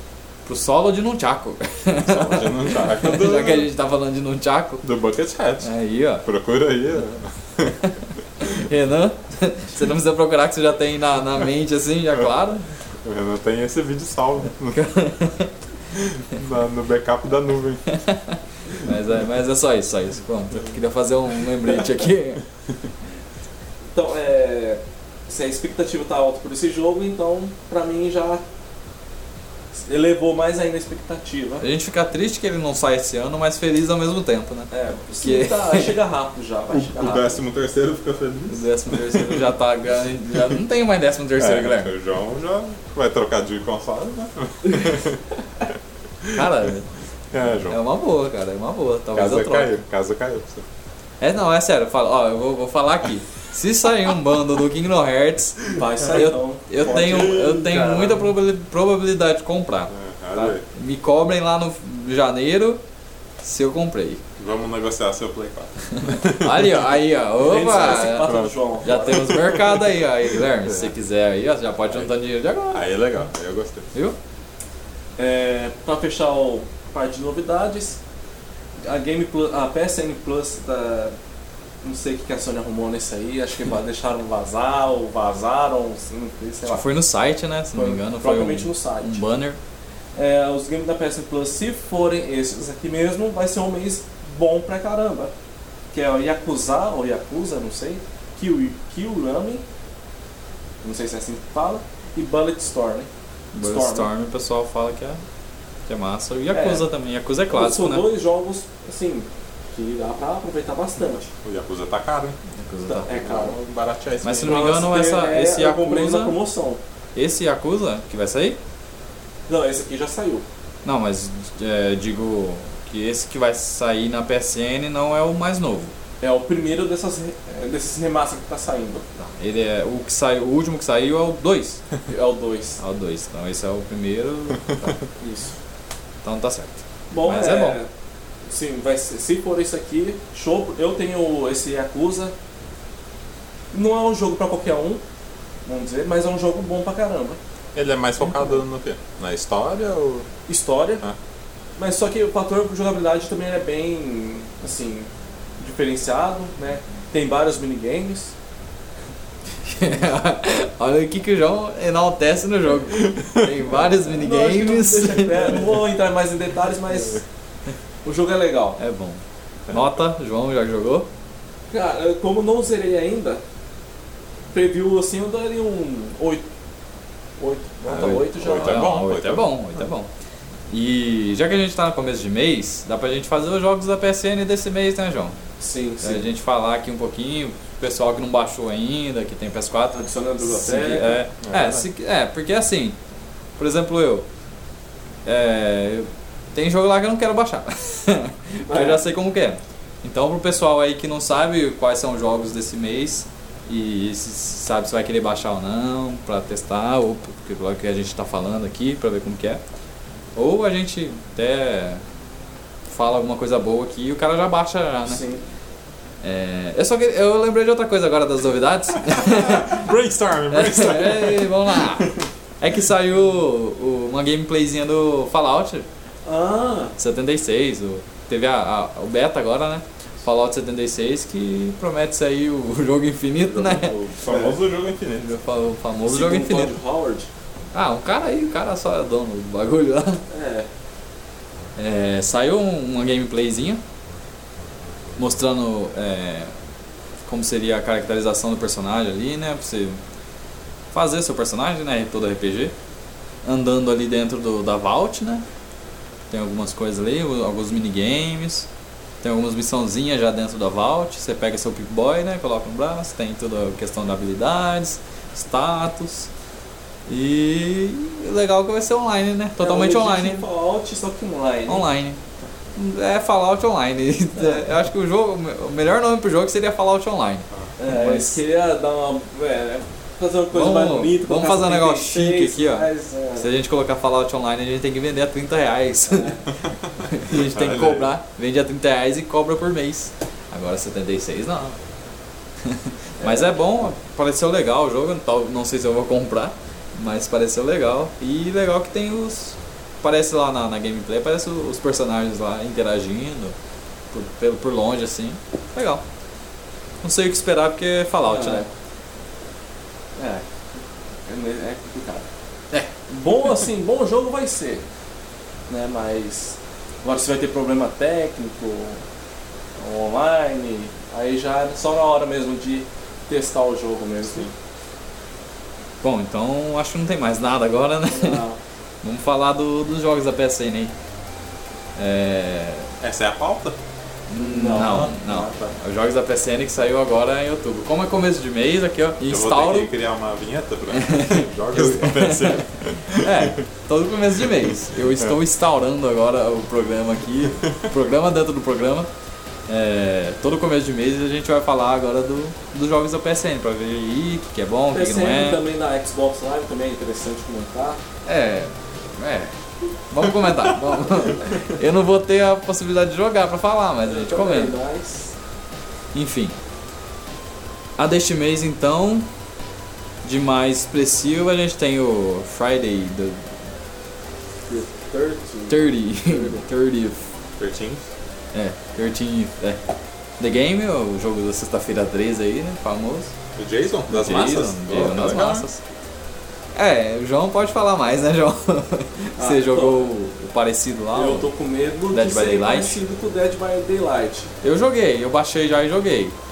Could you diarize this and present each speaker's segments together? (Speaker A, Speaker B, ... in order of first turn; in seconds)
Speaker A: 0.5-4.8, 5.6-6.3, 7.8-12.7, 14.7-15.5, 17.9-22.4, 31.6-36.0, 38.5-41.9, 46.3-46.9, 47.7-49.7, 51.2-62.8, 63.4-64.2, 66.0-73.0, 86.7-89.6, 103.5-105.2, 105.9-108.1, 112.6-113.1, 114.2-116.3, 117.2-118.6, 120.8-125.9, 129.2-131.8, 132.8-135.0, 136.2-137.8, 159.7-165.6, 168.8-171.1, 177.9-180.1, 180.7-185.4, 186.0-193.0, 193.6-194.3, 195.2-209.6, 210.3-212.0, 212.9-215.2, 216.2-219.9, 220.5-225.9, 227.0-233.9, 235.2-236.7, 237.7-240.2, 241.8-243.8, 245.2-246.5, 247.2-250.0, 250.9-252.8, 253.4-255.4, 256.3-258.7, 259.2-266.3, 267.1-270.4, 271.7-272.2, 272.8-278.4, 280.5-286.4, 287.0-291.8, 292.6-303.6, 304.1-306.0, 307.0-308.7, 326.0-328.4, 329.0-330.9, 332.0-332.9, 334.3-339.9, 340.9-349.1, 349.7-355.6, 358.3-359.6, 360.1-364.7, 366.1-366.6, 368.0-369.3, 370.2-373.4, 375.7-377.2, 378.5-379.8, 380.4-383.3, 384.1-385.8, 386.8-391.5, 392.1-393.0, 394.6-396.4
Speaker B: 2.0-3.7, 4.8-5.7, 6.2-7.8, 13.0-14.9, 15.9-17.8, 36.8-39.5, 41.4-45.2, 47.3-47.8, 49.1-50.7, 59.9-60.6, 64.4-66.8, 68.2-69.9, 70.6-70.9, 72.7-73.9, 111.4-112.4, 113.1-114.8, 147.7-150.3, 163.2-163.5, 169.7-169.9, 178.1-179.5, 191.4-191.9, 219.1-222.3, 233.4-235.4, 286.7-288.1, 333.0-333.8, 339.2-343.6, 377.6-378.1, 383.6-385.7
Speaker C: 23.9-28.4, 29.8-31.7, 34.7-37.4, 55.7-58.2, 67.4-69.4, 75.2-78.0, 78.8-81.2, 81.8-86.9, 87.7-89.2, 90.2-95.3, 95.9-99.6, 100.8-103.1, 103.6-104.1, 106.5-106.9, 107.5-111.3, 112.8-113.6, 114.4-116.8, 119.5-120.5, 126.2-129.1, 132.1-132.8, 135.2-135.5, 137.1-137.9, 138.5-142.3, 143.7-145.0, 145.7-147.4, 150.5-151.0, 151.8-158.3, 164.1-167.2, 168.1-168.8, 171.7-173.4, 174.5-176.4, 177.4-178.8, 185.6-186.3, 190.0-191.2, 198.7-199.0, 215.1-215.4, 226.2-226.9, 234.3-234.6, 236.1-237.3, 240.3-240.7, 269.6-271.9, 277.8-283.5, 286.1-286.4, 293.2-293.6, 308.3-308.7, 310.2-310.4, 311.3-312.3, 313.1-314.9, 315.7-319.0, 319.8-324.5, 328.1-328.6, 334.4-335.7, 354.9-358.0, 364.1-365.4, 374.7-376.6, 389.4-390.1, 391.1-394.5